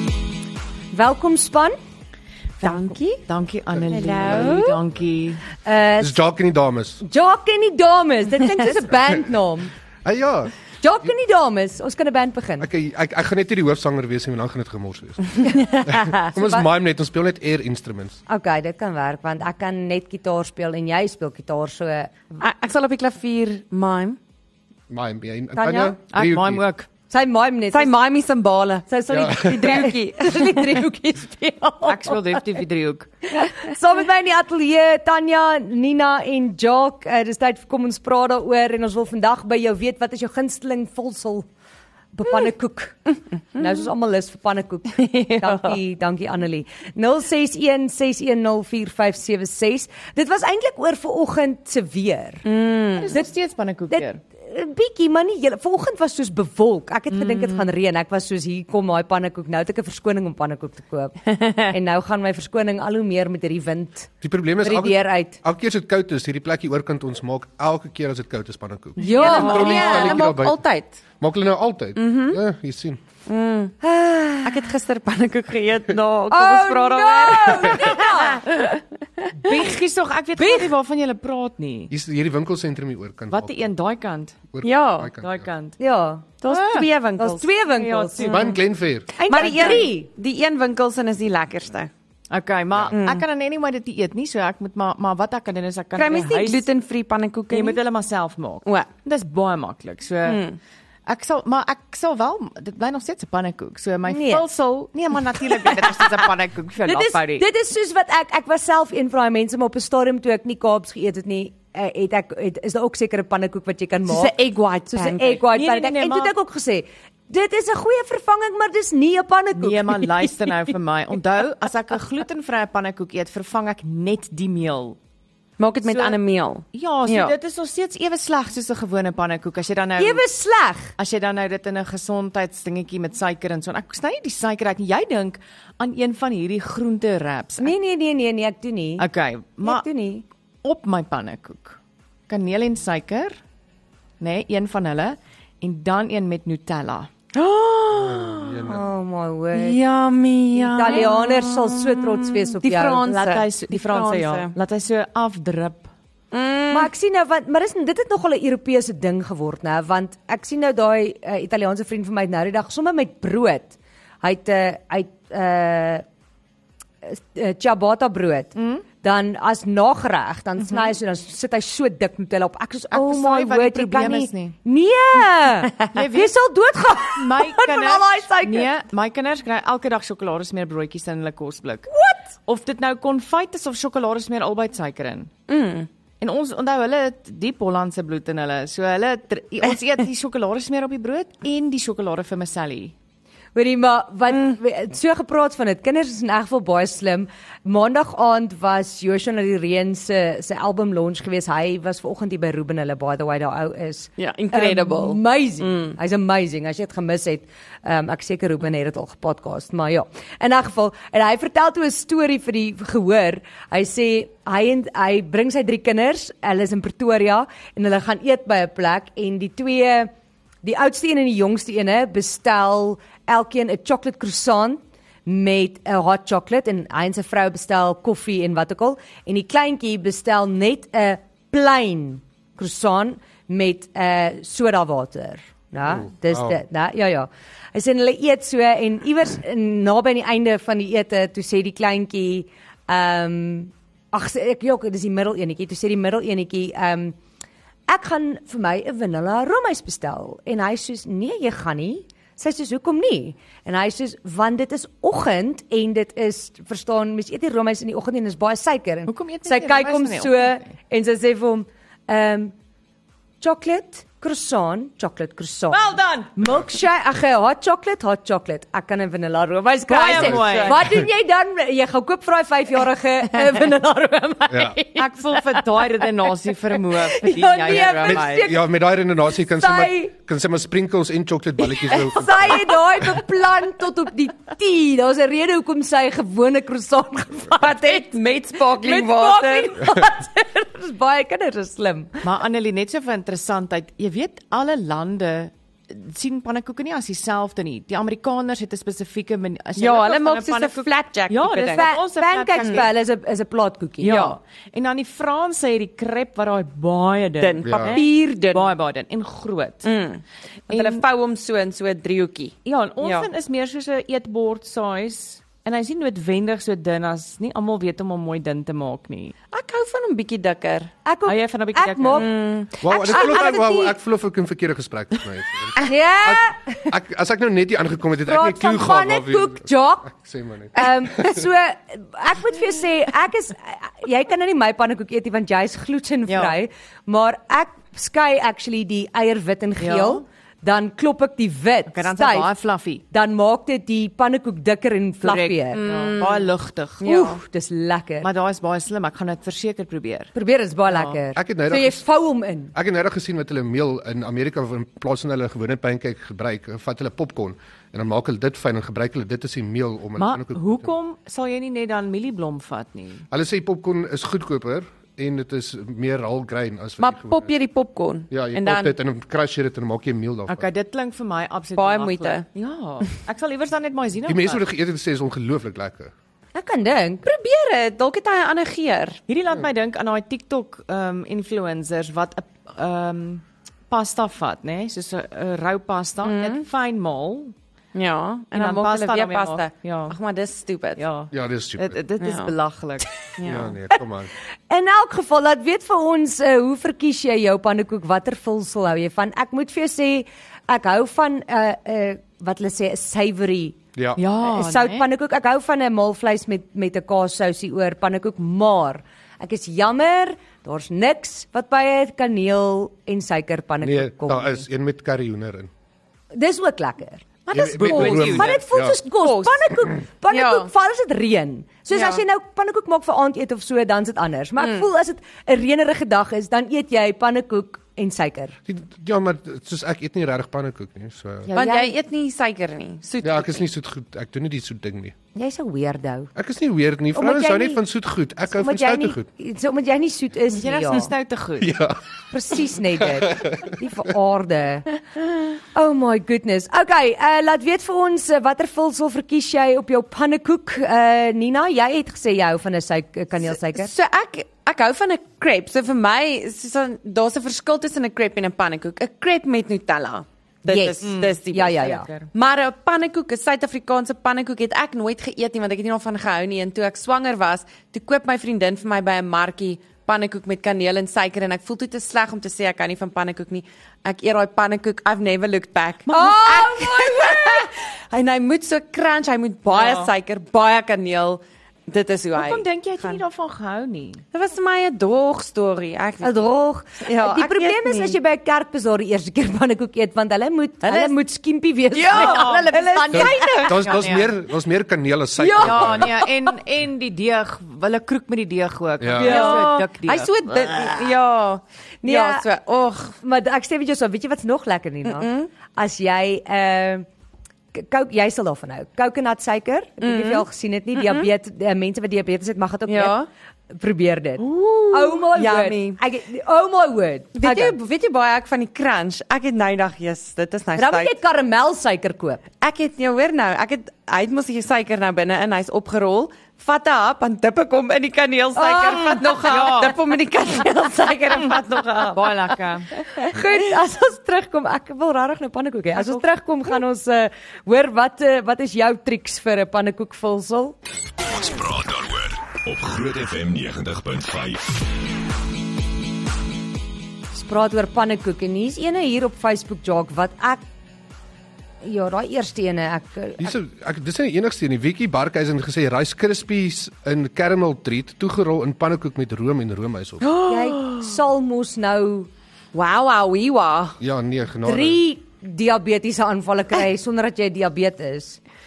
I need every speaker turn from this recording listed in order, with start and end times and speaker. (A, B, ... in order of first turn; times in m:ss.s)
0:00.9-0:01.8 A
0:02.6-0:03.2 B
0:02.6-0:05.4 C
0:03.9-0:04.8 B
0:05.6-0:06.2 A
0:06.0-0:07.0 D
0:07.0-0:09.7 A
0:10.0-0:10.5 D
0:10.8-0:12.7 A
0:12.6-0:18.2 D
0:15.5-0:16.6 A
0:18.3-0:22.3 A
0:22.4-0:24.2 B
0:24.9-0:26.6 D
0:25.6-0:26.0 A
0:26.1-0:26.9 C
0:27.1-0:27.9 A
0:27.7-0:30.6 B
0:28.9-0:32.6 A
0:29.1-0:29.6 D
0:31.8-0:33.1 C
0:33.3-0:41.5 A
0:42.1-0:52.4 A
0:45.0-0:45.8 B
0:52.4-0:53.2 B
0:53.0-0:54.2 C
0:53.9-1:01.2 A
0:57.1-0:57.6 C
1:01.4-1:01.7 B
1:01.7-1:04.1 A
1:04.2-1:10.6 D
1:04.6-1:05.4 A
1:09.0-1:10.1 A
1:09.1-1:11.0 B
1:09.2-1:09.6 C
1:11.2-1:13.0 D
1:12.0-1:12.4 B
1:13.3-1:13.8 B
1:13.8-1:14.7 A
1:14.4-1:18.8 B
1:16.3-1:18.4 A
1:19.4-1:21.9 C
1:20.4-1:20.7 A
1:21.9-1:23.7 D
1:23.3-1:24.4 C
1:24.5-1:25.5 D
1:24.6-1:25.1 B
1:25.1-1:25.8 C
1:25.8-1:26.3 A
1:26.4-1:27.5 B
1:26.5-1:26.9 C
1:27.2-1:28.2 A
1:27.7-1:28.5 C
1:28.2-1:28.6 B
1:28.2-1:29.1 D
1:29.2-1:31.9 B
1:29.2-1:30.1 A
1:29.4-1:29.9 C
1:32.3-1:36.6 C
1:32.9-1:33.2 B
1:36.0-1:37.8 B
1:37.5-1:40.4 C
1:40.2-1:40.6 B
1:41.0-1:47.4 C
1:44.1-1:44.4 A
1:45.6-1:46.2 A
1:46.8-1:54.3 A
1:54.1-1:55.4 B
1:54.9-2:00.5 A
1:55.4-1:56.3 C
1:59.6-2:05.0 C
2:05.6-2:07.3 B
2:05.8-2:06.2 C
2:06.7-2:10.2 C
2:10.0-2:10.9 A
2:11.0-2:17.7 C
2:17.6-2:19.1 A
2:19.0-2:19.9 C
2:19.6-2:20.2 A
2:20.6-2:21.8 C
2:22.3-2:23.4 C
2:24.2-2:27.1 C
2:27.3-2:28.7 B
2:27.9-2:28.8 D
2:28.6-2:29.8 A
2:29.5-2:34.5 B
2:30.5-2:33.0 A
2:32.6-2:35.9 C
2:36.3-2:36.9 B
2:36.7-2:46.0 A
2:47.0-2:58.7 A
2:48.5-2:48.8 C
2:52.9-2:54.6 C
2:55.9-2:56.3 C
2:57.0-3:01.9 C
3:01.9-3:02.3 A
3:02.4-3:05.3 C
3:05.5-3:05.9 B
3:06.2-3:12.9 C
3:13.5-3:40.1 A
3:24.2-3:26.0 B
3:40.6-4:07.2 A
3:55.8-3:56.6 D
4:07.9-4:22.5 A
4:19.1-4:20.7 C
4:23.4-4:38.6 A
4:25.7-4:26.3 C
4:29.9-4:30.8 C
4:30.1-4:30.4 D
4:30.3-4:30.7 B
4:34.5-4:34.8 D
4:34.9-4:38.5 C
4:38.0-4:43.0 D
4:39.6-4:40.1 A
4:41.6-4:48.0 A
4:47.6-4:49.8 B
4:48.8-4:52.2 A
4:52.2-5:02.9 C
4:59.8-5:01.9 B
5:01.7-5:04.3 A
5:04.0-5:09.9 C
5:04.0-5:04.3 B
5:07.4-5:08.7 B
5:07.6-5:08.0 D
5:09.8-5:13.3 B
5:10.7-5:11.0 C
5:12.6-5:19.3 C
5:19.5-5:20.9 B
5:21.0-5:22.3 A
5:21.2-5:22.2 C
5:22.1-5:23.4 B
5:22.8-5:23.9 A
5:22.8-5:31.4 D
5:25.8-5:26.9 A
5:28.2-5:30.1 A
5:30.7-5:42.5 A
5:36.3-5:36.6 C
5:39.8-5:40.2 C
5:41.9-5:43.0 C
5:43.1-5:45.9 A
5:45.2-5:47.0 C
5:45.7-5:47.4 B
5:47.0-5:48.3 A
5:48.2-5:50.3 C
5:50.3-5:52.7 A
5:50.9-5:51.2 C
5:51.3-5:52.0 D
5:52.7-6:00.9 D
6:00.2-6:03.2 C
6:03.3-6:07.5 D
6:07.0-6:08.9 B
6:08.3-6:10.7 D
6:10.5-6:14.6 C
6:11.8-6:12.4 B
6:14.2-6:16.1 D
6:16.5-6:17.2 A
6:17.2-6:19.2 B
6:19.3-6:27.5 C
6:26.2-6:26.6 B
6:27.9-6:31.0 B
6:28.5-6:30.2 C
6:31.0-6:33.3 C
6:31.3-6:32.0 D
6:32.2-6:32.5 B
6:33.4-6:33.7 B
6:33.4-6:34.3 D
6:34.7-6:43.8 A
6:43.9-6:44.2 D
6:44.2-6:45.0 C
6:44.4-6:54.6 A
6:53.8-6:55.7 D
6:56.3-6:57.2 A
6:57.5-6:58.6 B
6:57.5-6:58.5 C
6:57.5-6:59.0 D
6:57.8-7:08.6 A
6:59.2-6:59.7 B
7:00.3-7:00.7 B
7:01.9-7:02.2 B
7:04.6-7:04.9 B
7:08.6-7:11.5 D
7:11.4-7:12.0 C
7:11.5-7:13.7 B
7:13.2-7:15.1 D
7:15.3-7:16.3 A
7:16.3-7:19.2 D
7:17.1-7:17.8 A
7:18.5-7:21.1 A
7:20.5-7:21.7 C
7:21.6-7:22.0 D
7:22.3-7:24.8 A
7:23.0-7:23.8 D
7:25.7-7:33.9 A
7:33.5-8:03.2 B
7:40.6-7:42.1 A
7:41.0-7:42.3 C
7:56.1-7:56.8 C
7:56.1-7:57.7 A
7:59.7-8:00.1 C
8:02.3-8:04.2 C
8:04.3-8:06.4 B
8:06.2-8:13.8 A
8:07.0-8:08.2 B
8:10.8-8:11.1 B
8:11.9-8:14.0 B
8:12.1-8:14.3 C
8:13.1-8:16.2 D
8:15.4-8:16.2 A
8:15.6-8:21.0 C
8:19.0-8:19.5 D
8:19.2-8:19.8 A
8:19.2-8:23.2 B
8:22.0-8:22.4 A
8:23.2-8:27.0 A
8:25.0-8:25.5 B
8:27.7-8:33.1 A
8:30.0-8:30.4 B
8:31.0-8:31.3 B
8:32.9-8:33.3 B
8:33.7-8:37.8 A
8:34.4-8:36.0 B
8:37.3-8:41.1 B
8:40.8-8:42.4 A
8:42.6-8:52.6 B
8:48.6-8:49.1 A
8:48.7-8:50.0 C
8:52.1-8:52.9 C
8:53.2-9:00.8 A
9:01.4-9:04.8 E
9:07.3-9:10.6 A
9:11.8-9:13.5 A
9:13.4-9:20.3 D
9:20.2-9:21.0 B
9:20.4-9:22.3 A
9:22.7-9:24.0 B
9:24.0-9:25.0 D
9:24.6-9:28.4 A